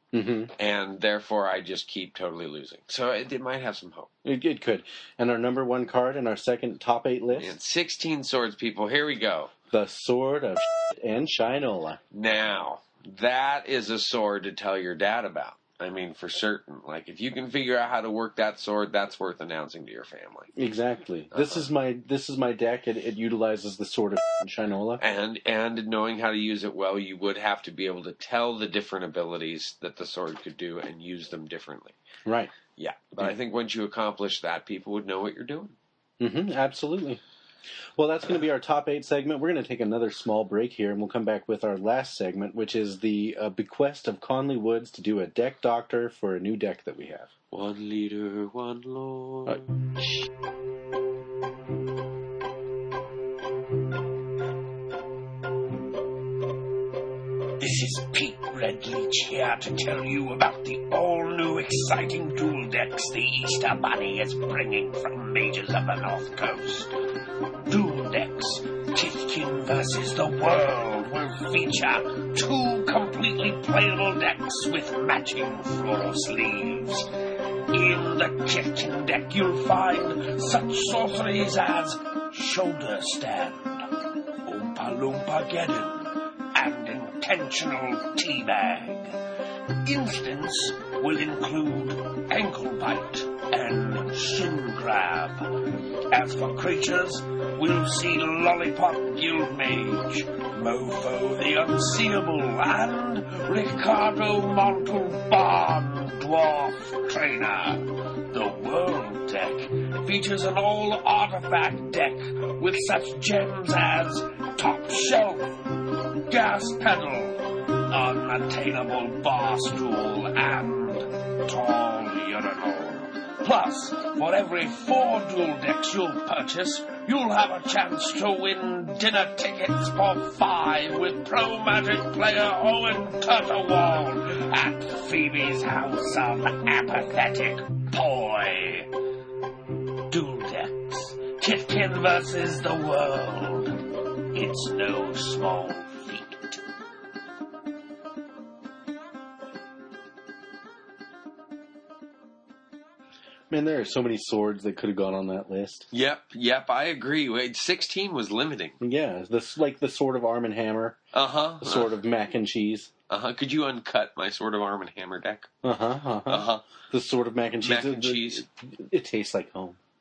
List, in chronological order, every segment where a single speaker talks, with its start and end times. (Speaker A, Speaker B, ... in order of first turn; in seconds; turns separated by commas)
Speaker A: 0.1-0.5, Speaker B: 0.6-4.1, Speaker A: 4.2-7.5, Speaker B: 7.3-9.5, Speaker A: 9.7-12.0, Speaker B: 12.1-20.5, Speaker A: 20.5-25.0, Speaker B: 21.3-21.6, Speaker B: 25.0-32.0, Speaker A: 32.2-32.5, Speaker B: 32.8-35.8, Speaker A: 36.2-37.2, Speaker A: 38.0-47.3, Speaker B: 47.5-49.6, Speaker C: 57.6-66.9, Speaker C: 67.7-77.1, Speaker C: 77.7-83.9, Speaker C: 84.4-89.2, Speaker C: 89.8-138.9, Speaker C: 140.1-146.6, Speaker A: 153.5-155.9, Speaker B: 155.9-158.8, Speaker A: 158.8-161.0, Speaker B: 161.1-161.9, Speaker A: 161.6-162.9, Speaker B: 163.1-165.5, Speaker A: 165.6-169.8, Speaker B: 166.2-166.6, Speaker B: 167.6-168.4